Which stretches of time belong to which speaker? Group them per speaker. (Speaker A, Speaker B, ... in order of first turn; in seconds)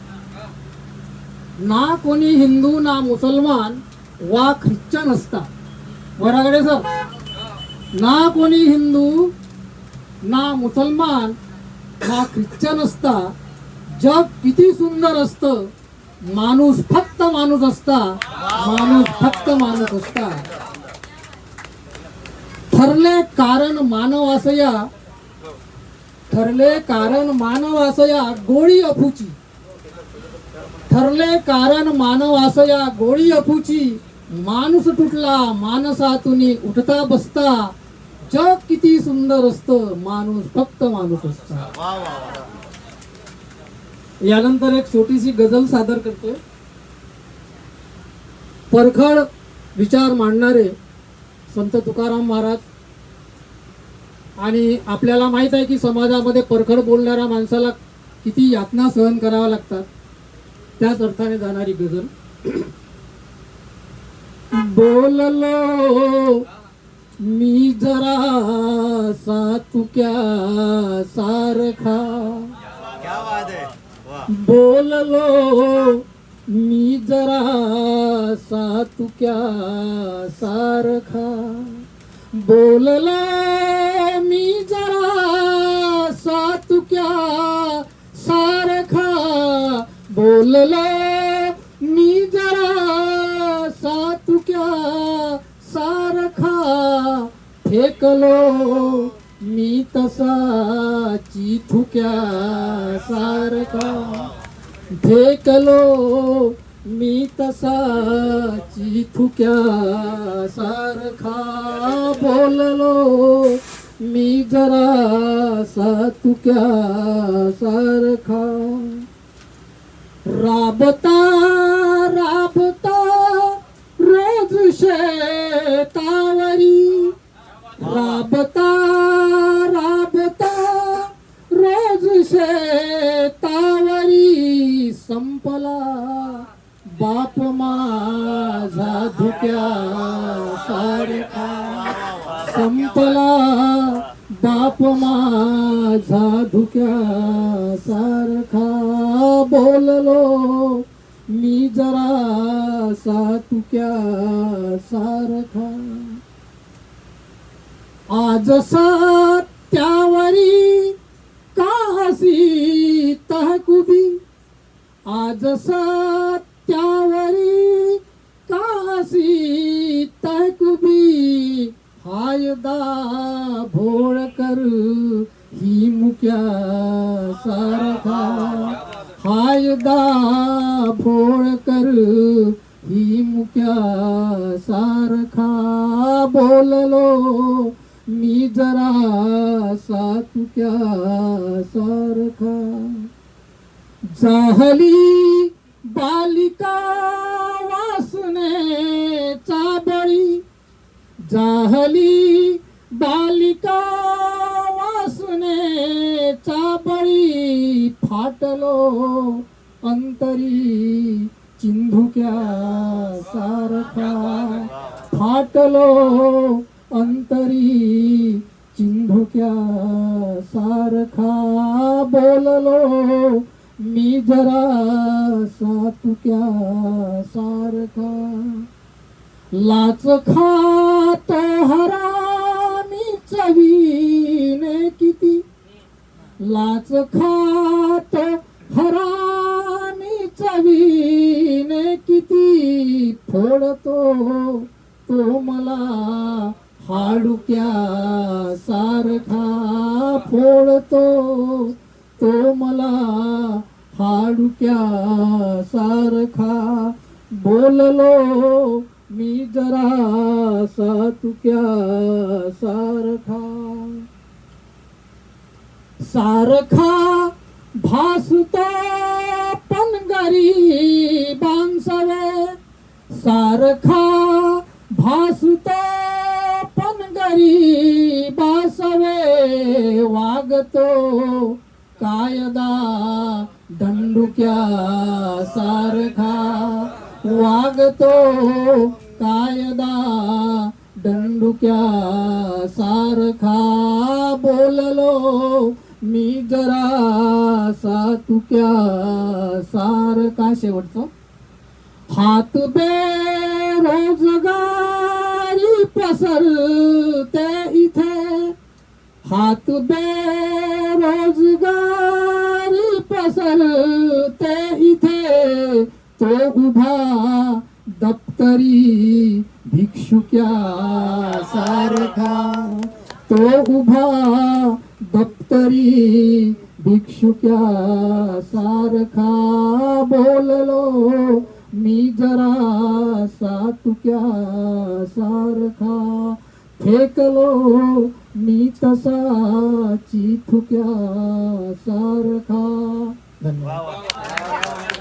Speaker A: 1.6-5.5, 6.2-6.9, 7.9-9.3, 10.2-11.4, 12.0-13.3, 14.0-15.7, 16.3-20.4, 22.7-24.9, 26.3-29.4, 30.9-37.7, 38.3-41.7, 44.2-46.4, 48.7-50.8, 51.5-52.6, 54.4-59.9, 60.8-62.7, 64.5-66.4, 67.2-72.5, 74.3-104.3, 104.9-119.0, 120.2-127.1, 127.8-156.2, 158.1-160.9, 161.6-164.2, 165.1-193.1, 194.1-200.4, 201.3-228.7, 229.5-235.4, 236.4-264.1, 266.0-272.6, 273.1-301.1, 302.1-308.6, 309.2-343.7